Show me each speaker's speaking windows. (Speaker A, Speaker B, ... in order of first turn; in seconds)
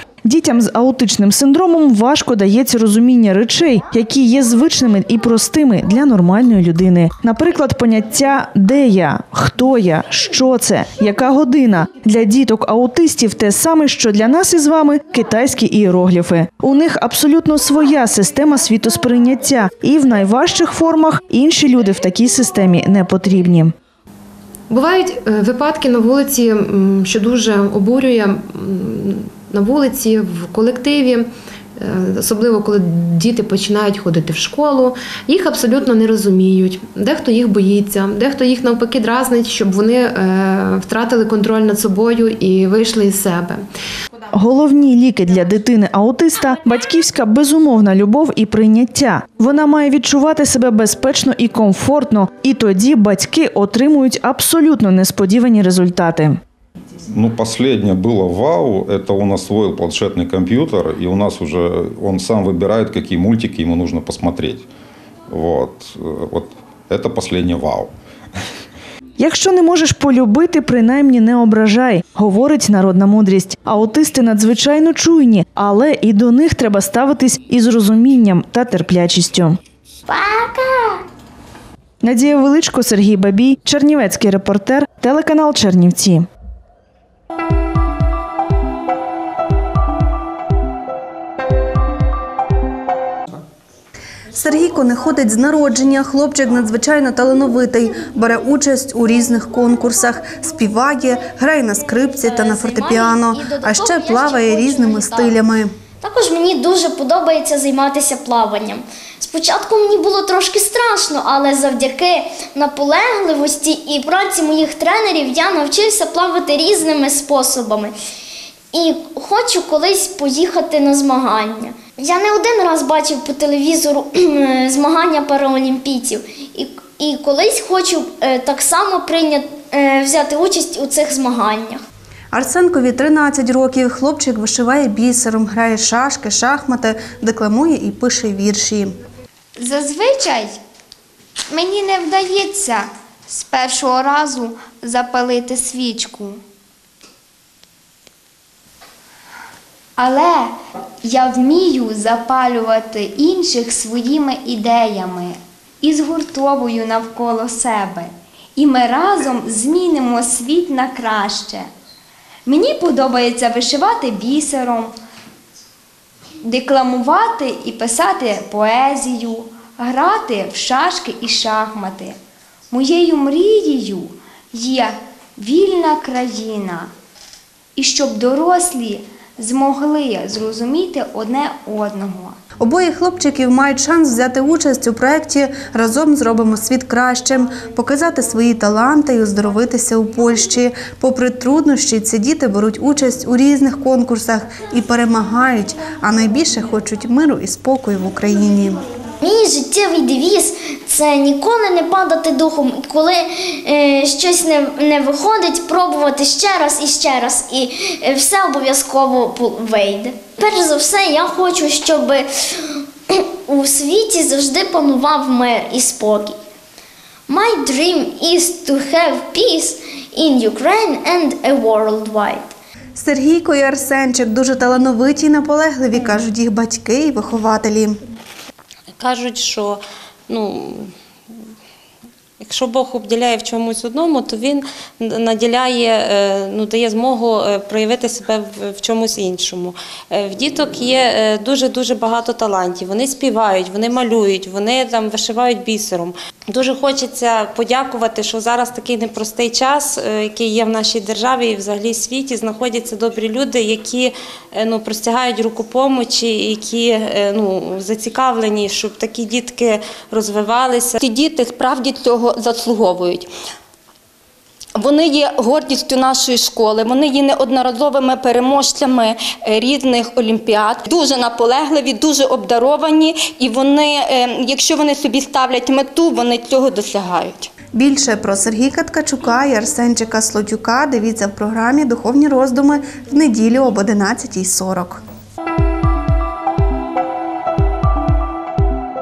Speaker A: 0.3-23.7, 44.3-56.4, 69.2-79.6, 82.0-86.3
Speaker B: 24.7-43.7
Speaker C: 57.1-64.7, 65.3-67.9
Speaker D: 80.1-81.0, 102.2-105.4, 106.0-118.0, 118.7-131.8, 199.2-216.4, 217.3-222.5
Speaker E: 94.3-105.7, 132.3-138.9, 182.6-198.8, 223.0-228.0, 277.7-285.0
Speaker F: 139.6-140.6, 141.5-146.4, 150.0-161.7, 162.5-164.9, 166.4-172.2, 172.7-176.9, 177.8-182.4
Speaker G: 229.0-230.9, 232.4-261.0
Speaker H: 261.0-263.3, 264.8-277.5